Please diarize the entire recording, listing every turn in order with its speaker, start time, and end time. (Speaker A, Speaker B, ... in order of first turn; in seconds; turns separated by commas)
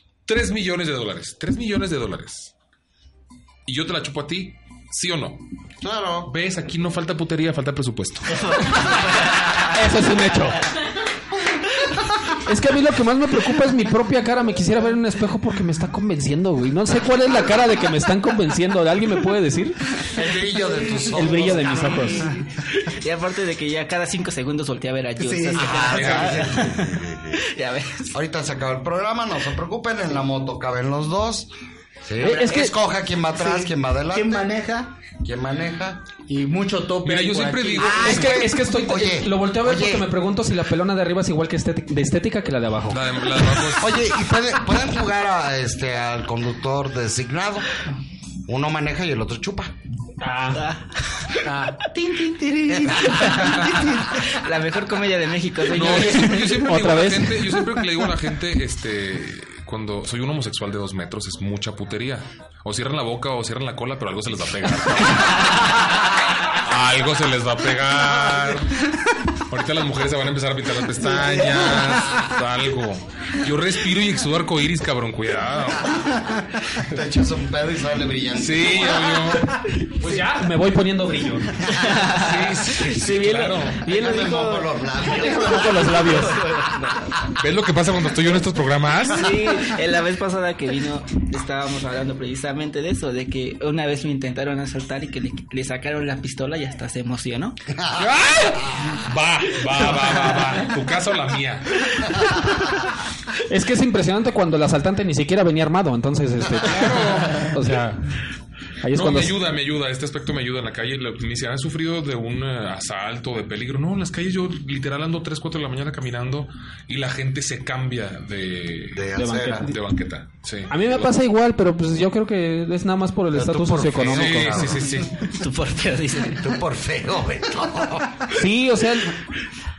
Speaker A: 0.3-2.5, Speaker A: 3.7-5.4, Speaker B: 5.8-6.3, Speaker A: 6.3-8.9, Speaker C: 9.7-10.6, Speaker C: 12.3-20.0, Speaker B: 20.1-21.9, Speaker C: 21.0-22.3, Speaker D: 21.6-28.2, Speaker E: 25.2-25.7, Speaker B: 25.6-27.4, Speaker A: 25.8-26.6, Speaker B: 28.1-31.5, Speaker B: 32.0-34.5, Speaker C: 32.2-32.8, Speaker E: 33.3-34.9, Speaker B: 35.2-36.0, Speaker E: 36.3-38.2, Speaker A: 37.0-38.4, Speaker C: 37.8-43.0, Speaker B: 37.9-40.1, Speaker A: 42.9-44.0, Speaker B: 43.7-47.7, Speaker B: 48.5-49.8, Speaker C: 50.2-50.6, Speaker D: 50.5-56.8, Speaker E: 51.5-54.2, Speaker B: 52.7-53.1, Speaker A: 55.7-68.9, Speaker C: 56.6-57.5, Speaker A: 69.5-76.2, Speaker B: 76.8-79.5, Speaker A: 78.3-79.6, Speaker C: 80.0-81.6, Speaker B: 80.0-80.3, Speaker D: 81.6-87.3, Speaker A: 81.9-83.8, Speaker B: 83.8-86.2, Speaker C: 85.5-86.4, Speaker A: 87.3-89.4, Speaker D: 89.1-97.6, Speaker B: 97.8-98.0, Speaker A: 98.0-102.2, Speaker C: 103.5-108.1, Speaker A: 106.6-107.5, Speaker C: 108.8-109.3, Speaker A: 108.9-121.1, Speaker B: 118.9-119.7, Speaker C: 119.2-119.8, Speaker C: 120.7-124.7, Speaker B: 123.3-125.1, Speaker A: 124.0-125.2, Speaker D: 125.2-126.6, Speaker B: 126.4-128.3, Speaker C: 128.3-129.2